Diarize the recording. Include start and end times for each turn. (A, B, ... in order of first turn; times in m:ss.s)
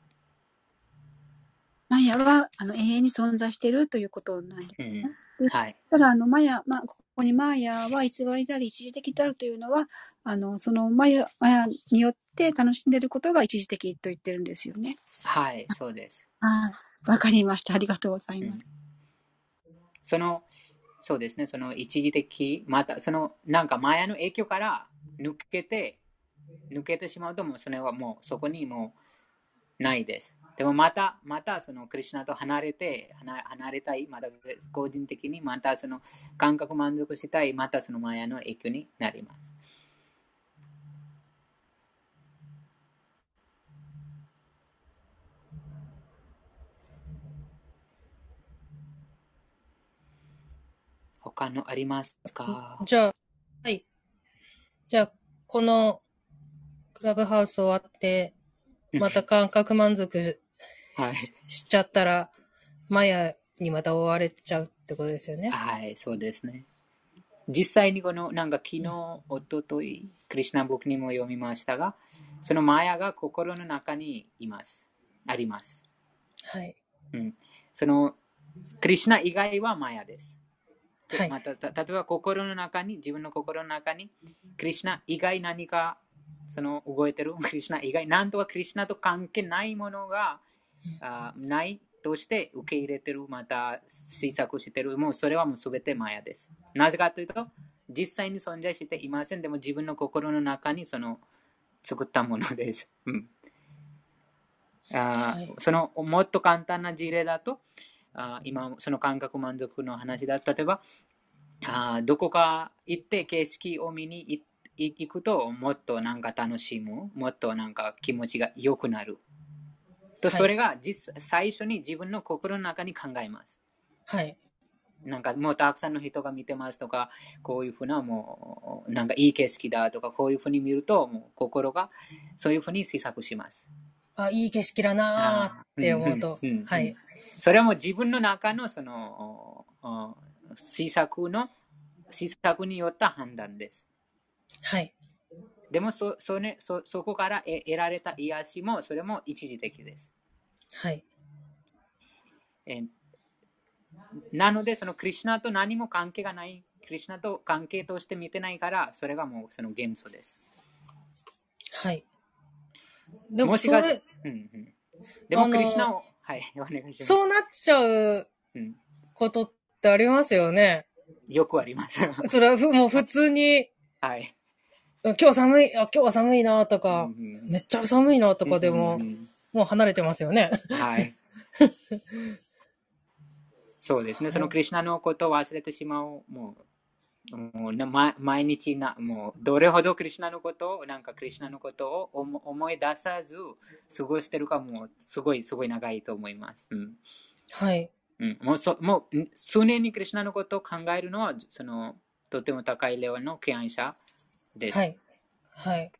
0:01.9-0:15.0 A
0:04.8-0:05.8 B
0:15.2-0:16.2 B
0:16.4-0:18.6 A
0:20.0-0:20.5 B
0:21.0-0:26.0 B
0:26.7-0:29.0 B
0:29.8-0:39.5 B
0:51.2-0:52.8 B
0:52.5-0:53.8 C
0:54.9-0:56.0 C
0:57.0-0:58.3 C
0:58.9-0:59.2 B
0:59.0-1:00.4 C
1:01.0-1:01.3 B
1:01.5-1:02.3 C
1:02.9-1:05.5 C
1:05.5-1:06.7 B
1:07.5-1:15.8 B
1:16.4-1:16.8 C
1:17.1-1:18.2 B
1:18.8-1:20.4 B
1:21.1-1:30.4 B
1:31.0-1:41.2 B
1:41.8-1:43.3 B
1:44.9-1:47.6 B
1:48.1-1:50.8 B
1:51.6-1:59.2 B
2:00.2-2:03.6 B
2:04.1-2:04.4 C
2:05.0-2:13.6 B
2:14.2-2:17.0 C
2:15.2-2:21.5 B
2:22.1-2:23.8 B
2:24.6-2:24.9 C
2:25.7-2:30.1 B
2:30.8-2:31.0 C
2:32.7-2:32.9 B
2:34.3-2:40.4 B
2:41.7-2:42.0 C
2:43.3-2:44.0 C
2:43.4-2:44.7 B
2:45.3-2:47.2 B
2:45.3-2:45.9 C
2:47.0-2:48.3 C
2:49.2-2:50.8 C
2:51.3-2:52.3 B
2:52.2-2:53.7 C
2:54.0-2:54.3 B
2:55.0-3:01.0 C
2:56.9-2:57.5 B
2:58.4-2:59.3 B
3:00.7-3:01.2 B
3:01.6-3:02.4 C
3:03.8-3:06.6 B
3:07.3-3:17.0 B
3:17.5-3:17.9 C
3:18.2-3:24.0 B
3:24.6-3:24.8 B
3:24.7-3:25.0 C
3:25.6-3:25.9 C